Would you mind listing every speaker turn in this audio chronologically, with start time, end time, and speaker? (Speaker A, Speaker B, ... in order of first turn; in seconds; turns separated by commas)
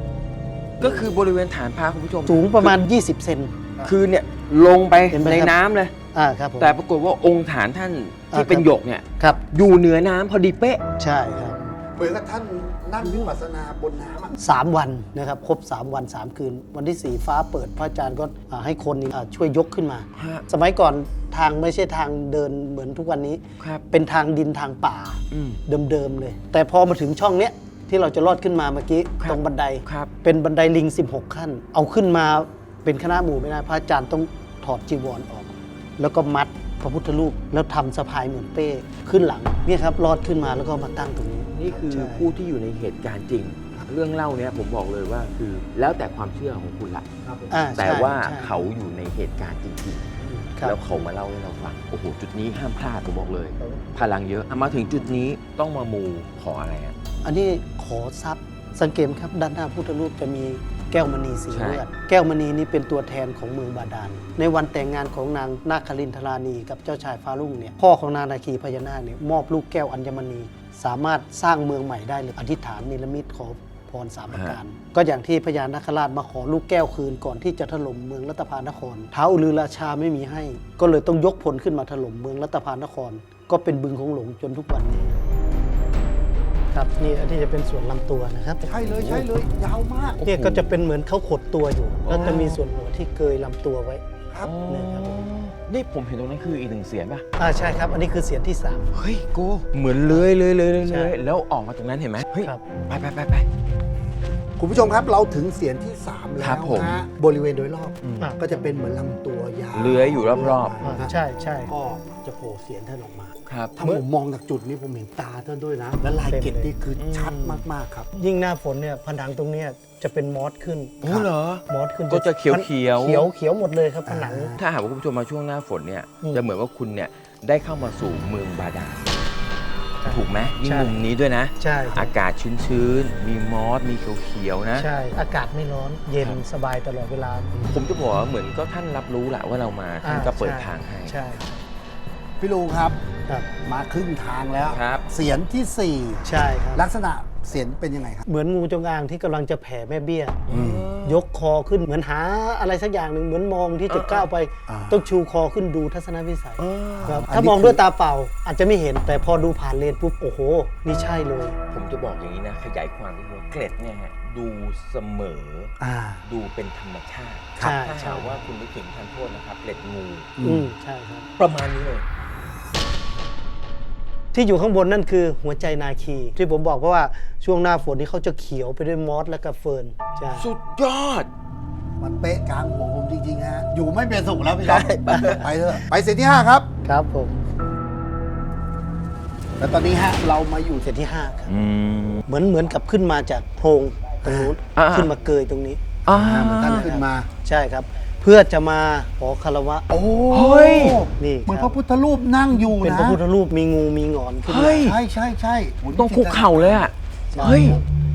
Speaker A: 0.8-2.9, Speaker B: 2.3-3.6, Speaker A: 3.8-6.0, Speaker B: 5.1-5.6, Speaker B: 6.1-6.8, Speaker A: 6.6-10.8, Speaker B: 8.3-8.7, Speaker B: 11.0-11.6, Speaker C: 11.6-14.4, Speaker B: 13.0-13.3, Speaker B: 14.4-42.3, Speaker A: 20.1-20.4, Speaker A: 23.6-23.9, Speaker A: 25.3-25.6, Speaker A: 29.2-30.1, Speaker A: 41.5-47.1, Speaker C: 47.2-47.6, Speaker B: 47.5-48.5, Speaker A: 47.8-57.0, Speaker C: 53.6-54.0, Speaker B: 57.2-85.3, Speaker A: 61.5-61.9, Speaker A: 74.3-74.6, Speaker B: 86.7-88.7, Speaker C: 88.7-90.2, Speaker A: 88.7-89.3, Speaker A: 90.2-90.7, Speaker B: 90.2-94.0, Speaker A: 92.0-92.6, Speaker A: 94.4-97.2, Speaker B: 94.7-95.3, Speaker B: 97.4-98.9, Speaker A: 98.9-103.5, Speaker B: 100.8-101.1, Speaker B: 102.4-102.6, Speaker C: 104.6-111.1, Speaker A: 106.4-107.0, Speaker A: 109.7-110.8, Speaker B: 110.8-111.7, Speaker C: 111.7-118.1, Speaker A: 113.5-113.8, Speaker B: 116.3-116.7, Speaker A: 117.0-117.6, Speaker B: 118.1-124.6, Speaker A: 121.0-123.3, Speaker C: 124.1-124.6, Speaker A: 124.6-129.1, Speaker B: 130.0-131.0, Speaker A: 130.1-134.9, Speaker B: 131.6-132.1, Speaker B: 134.8-137.7, Speaker A: 137.7-141.2, Speaker B: 140.0-141.5, Speaker C: 142.4-143.0, Speaker C: 143.6-148.3, Speaker A: 144.7-145.1, Speaker B: 146.2-146.8, Speaker B: 148.3-150.4, Speaker A: 150.5-151.2, Speaker C: 150.5-150.9, Speaker B: 151.1-161.6, Speaker A: 153.9-154.3, Speaker C: 154.7-155.0, Speaker A: 156.6-157.3, Speaker C: 157.0-157.8, Speaker A: 161.7-165.7, Speaker C: 165.8-166.2, Speaker A: 166.3-170.4, Speaker B: 167.6-168.4, Speaker C: 170.4-170.7, Speaker B: 170.4-171.3, Speaker A: 171.4-172.0, Speaker B: 174.3-180.5, Speaker A: 180.3-181.3, Speaker C: 182.0-186.7, Speaker A: 184.6-185.5, Speaker B: 185.1-185.4, Speaker B: 186.8-187.4, Speaker C: 189.6-190.9, Speaker B: 190.8-191.5, Speaker A: 191.5-192.2, Speaker B: 192.3-195.8, Speaker C: 194.2-194.5, Speaker A: 194.8-195.1, Speaker A: 196.1-196.9, Speaker C: 196.1-197.3, Speaker B: 196.7-199.9, Speaker C: 199.9-203.2, Speaker A: 200.3-201.0, Speaker B: 201.2-201.8, Speaker B: 202.8-204.9, Speaker A: 204.5-205.0, Speaker C: 204.8-207.8, Speaker A: 205.9-207.8, Speaker B: 207.4-207.8